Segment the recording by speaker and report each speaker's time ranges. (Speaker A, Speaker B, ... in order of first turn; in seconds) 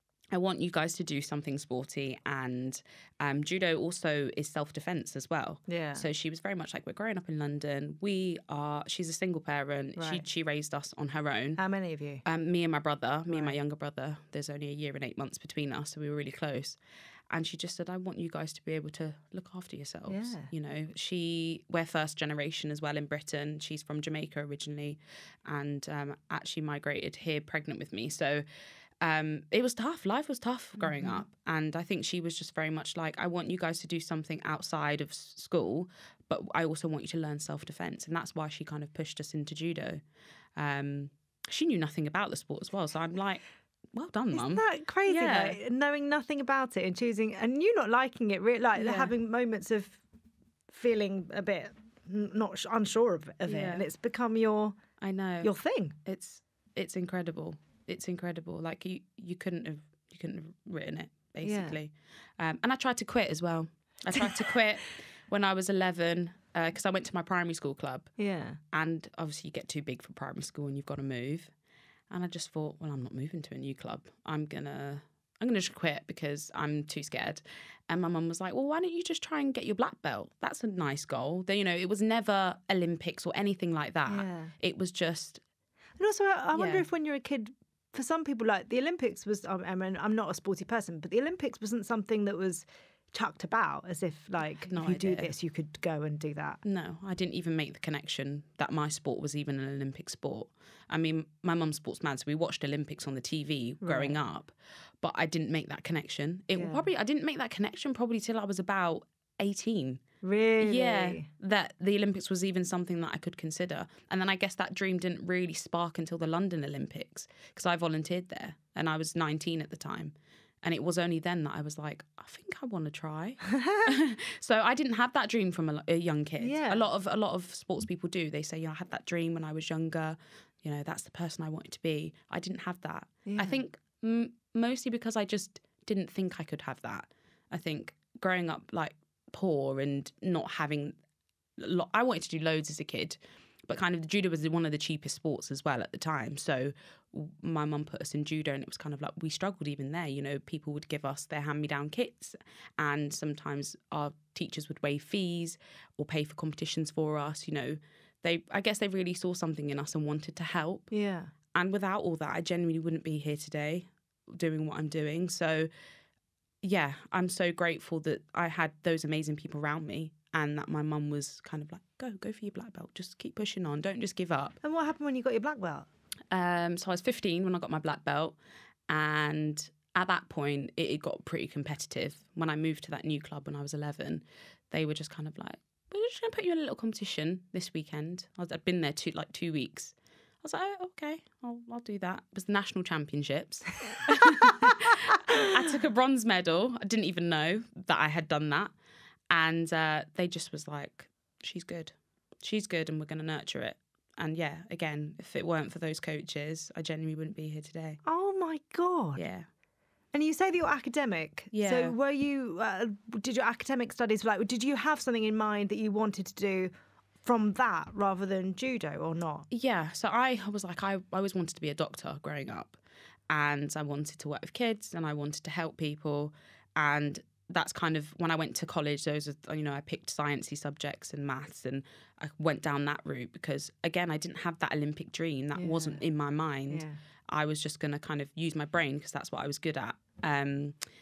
Speaker A: 0.3-11.6, 12.2-16.8, 17.3-28.4, 29.0-40.0, 40.6-43.4, 43.9-45.6, 48.8-49.1, 53.5-53.9, 55.0-55.5, 56.0-68.1, 68.7-71.5, 72.1-85.4, 86.5-86.8, 94.6-95.3, 96.6-110.0, 110.6-141.0, 141.6-160.9, 161.5-165.7, 166.6-174.6, 176.3-178.4, 178.9-198.7, 199.3-208.0, 209.2-209.5, 211.5-211.9, 219.5-222.8, 223.3-240.8
Speaker B: 5.7-6.1, 10.0-10.2, 11.6-12.2, 13.3-13.6, 20.1-20.5, 30.8-31.2, 44.3-50.0, 50.7-54.8, 55.4-56.0, 61.4-61.8, 68.2-68.6, 84.1-84.5, 86.0-96.6, 103.8-104.2, 106.5-106.9, 110.2-111.3, 123.5-123.9, 126.4-126.8, 133.3-133.6, 160.9-161.3, 174.6-175.9, 208.1-209.2, 210.1-216.7, 217.2-219.5, 235.6-236.0, 236.7-237.0